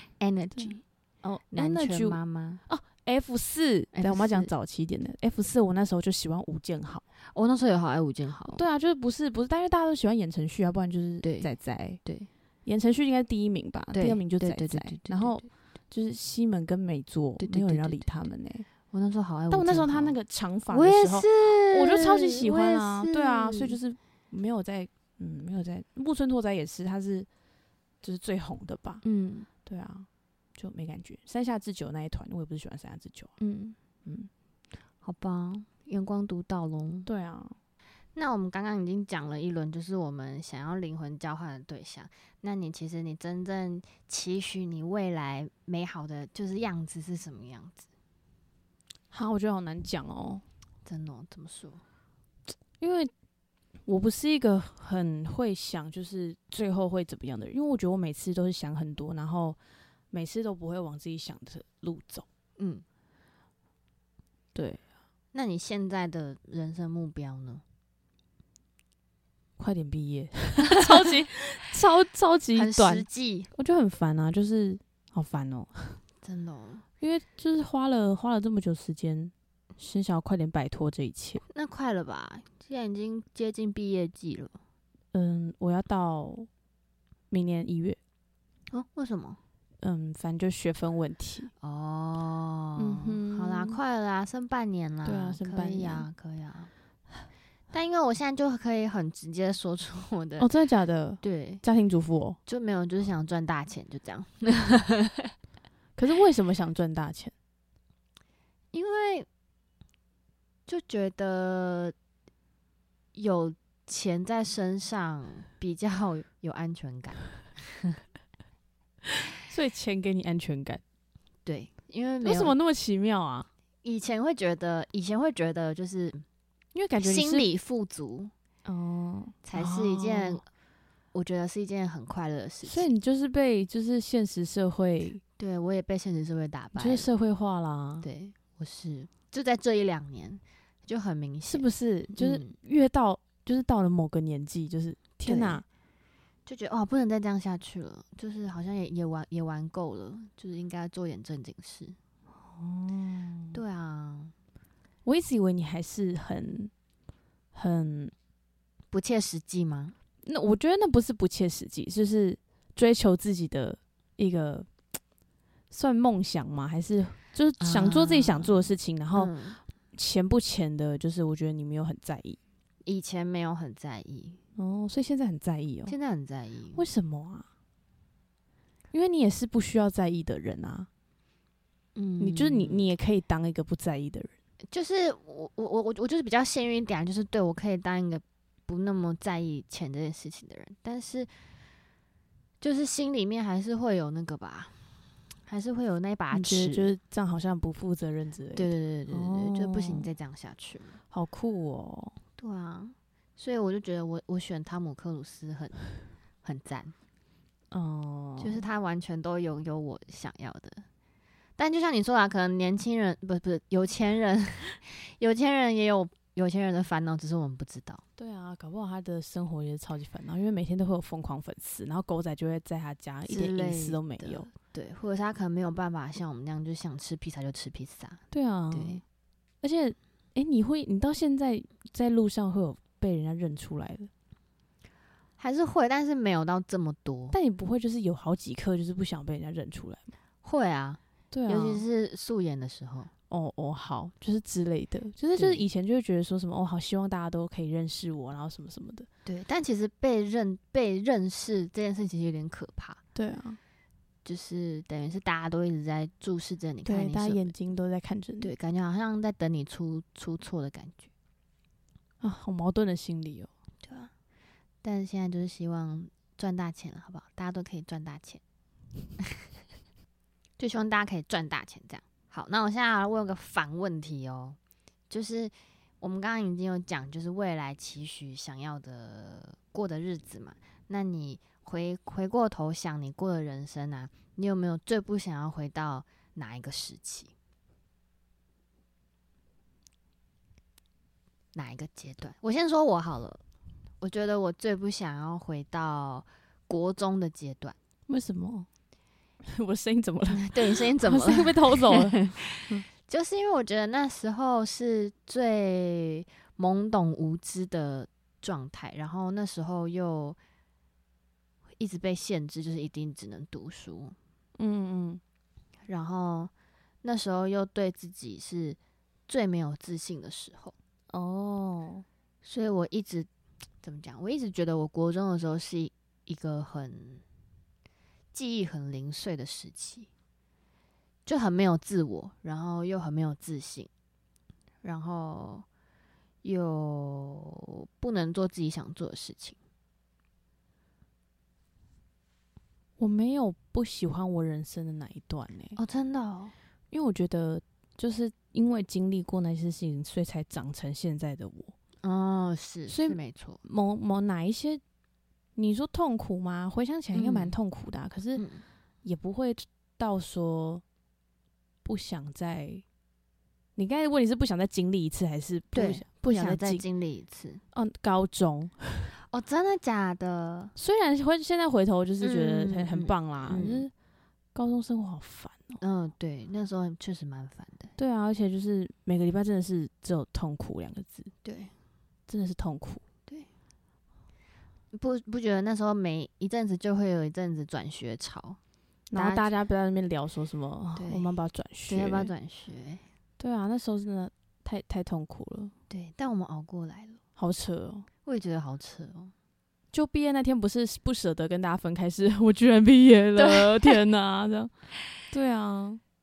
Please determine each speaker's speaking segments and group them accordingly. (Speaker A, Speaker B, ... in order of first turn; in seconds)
Speaker A: 0.2-0.8, 1.5-2.6, 3.9-4.5, 7.3-8.6, 11.2-11.5, 12.0-12.3, 13.9-15.4, 17.4-18.2, 18.9-20.1, 20.7-23.8, 29.0-29.5, 33.4-33.8, 35.0-37.1, 38.1-47.8, 50.8-51.8, 62.6-62.8, 65.3-67.6, 72.5-73.5, 76.2-76.8, 81.5-84.6, 88.7-89.4, 91.6-96.7, 97.7-100.5, 101.2-101.6, 102.5-105.3, 108.7-109.3, 110.7-111.9, 113.1-118.0, 121.5-122.5, 123.8-126.2, 127.0-128.3, 129.4-130.4, 131.1-132.9, 135.4-137.1, 138.0-142.5, 145.2-145.6, 146.4-152.0, 153.5-154.3, 158.9-159.9, 167.6-168.5, 169.2-169.6, 172.8-174.4, 175.9-176.8, 181.9-182.8, 184.7-191.3, 192.6-194.9, 195.4-196.9, 198.5-201.0, 202.4-205.8, 206.4-206.9, 208.4-210.8, 211.6-218.0, 223.3-229.0, 235.4-237.4, 240.4-243.1, 245.3-245.6, 249.2-253.0, 254.2-257.5, 258.4-261.1, 263.8-264.1, 264.8-268.4, 270.6-274.6, 275.1-287.3, 291.5-293.4, 294.0-297.8, 300.3-310.4, 311.8-314.1, 315.9-316.5, 317.0-320.7, 322.4-323.3, 323.8-327.2, 328.3-330.1, 331.2-333.9, 334.8-335.6, 336.4-339.6, 345.8-346.5, 352.0-353.6, 357.1-357.6, 358.4-358.6, 365.7-367.6, 369.3-370.7, 372.2-373.9, 375.8-377.9, 381.4-381.7, 384.9-388.6, 389.1-389.5, 390.9-391.3, 391.9-393.0, 395.9-397.2, 398.2-399.3, 403.4-404.0
Speaker B: 0.6-7.0, 8.5-12.0, 12.6-18.7, 19.5-27.3, 28.0-29.0, 29.6-33.3, 34.0-34.3, 37.0-37.6, 49.1-50.4, 52.8-53.1, 53.8-59.6, 60.1-62.2, 64.5-64.8, 69.6-76.0, 77.0-81.4, 85.1-86.5, 87.3-88.0, 89.8-91.5, 92.8-93.8, 95.0-96.0, 100.4-102.4, 106.0-107.3, 119.3-120.8, 122.2-123.5, 126.7-127.5, 128.6-130.4, 132.6-135.2, 136.8-138.1, 141.4-145.6, 152.4-153.6, 155.0-156.7, 157.5-158.1, 160.2-164.7, 165.7-169.3, 169.9-172.4, 174.6-175.9, 176.7-177.4, 178.9-180.9, 182.2-184.3, 196.3-200.1, 201.1-202.2, 207.7-208.6, 218.2-224.5, 228.3-229.0, 229.6-234.1, 237.3-240.0, 241.3-241.8, 243.3-249.1, 253.1-253.6, 256.8-258.5, 262.2-263.5, 298.1-298.7, 299.4-302.8, 314.6-315.2, 321.1-322.0, 343.0-345.8, 346.9-351.7, 352.9-354.8, 355.6-358.4, 359.0-360.8, 361.8-362.8, 363.8-366.8, 367.7-369.1, 370.8-373.9, 374.5-375.8, 378.0-381.3, 382.3-383.0, 389.1-392.3, 393.4-395.7, 397.4-398.1, 399.9-404.7, 405.2-406.0